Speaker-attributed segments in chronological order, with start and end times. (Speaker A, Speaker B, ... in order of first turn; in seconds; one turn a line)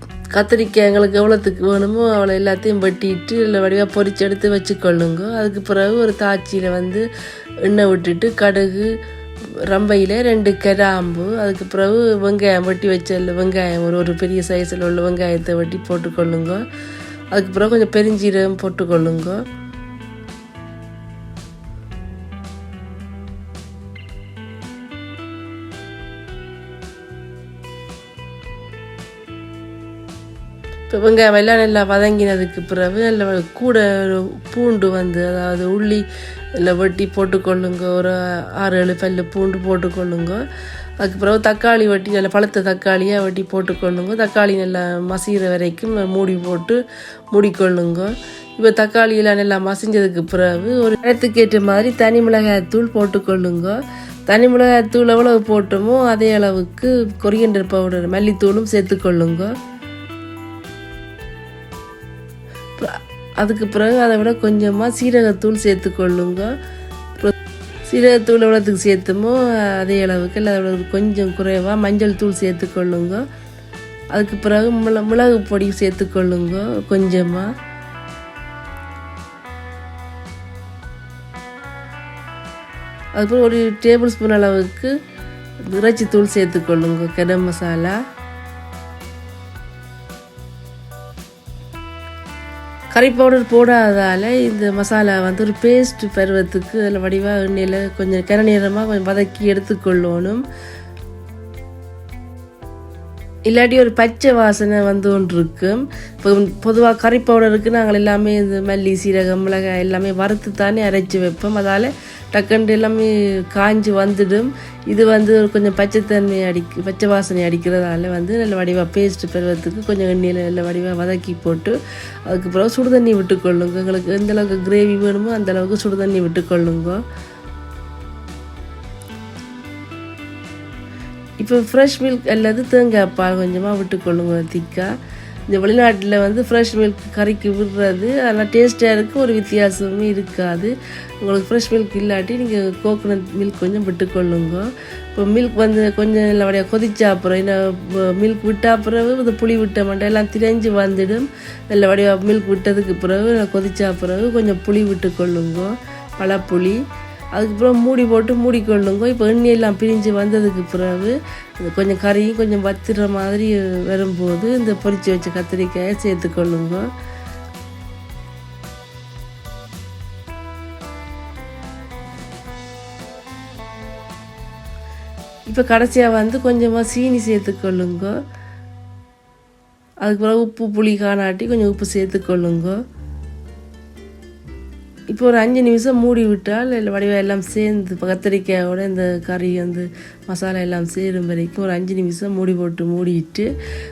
Speaker A: 0.3-7.0
Speaker A: 7.6-8.9
Speaker A: 9.7-16.6
Speaker A: 17.3-19.4
Speaker A: 30.9-40.4
Speaker A: 41.0-46.8
Speaker A: 47.3-59.5
Speaker A: 62.8-66.5
Speaker A: 67.9-73.2
Speaker A: 74.1-77.5
Speaker A: 83.1-84.9
Speaker A: 85.7-88.0
Speaker A: 92.9-100.4
Speaker A: 103.5-127.0
Speaker A: 131.4-134.9
Speaker A: 135.5-156.8
Speaker A: 157.3-166.9
Speaker A: 175.5-178.1
Speaker A: 180.0-182.8
Speaker A: 185.1-193.5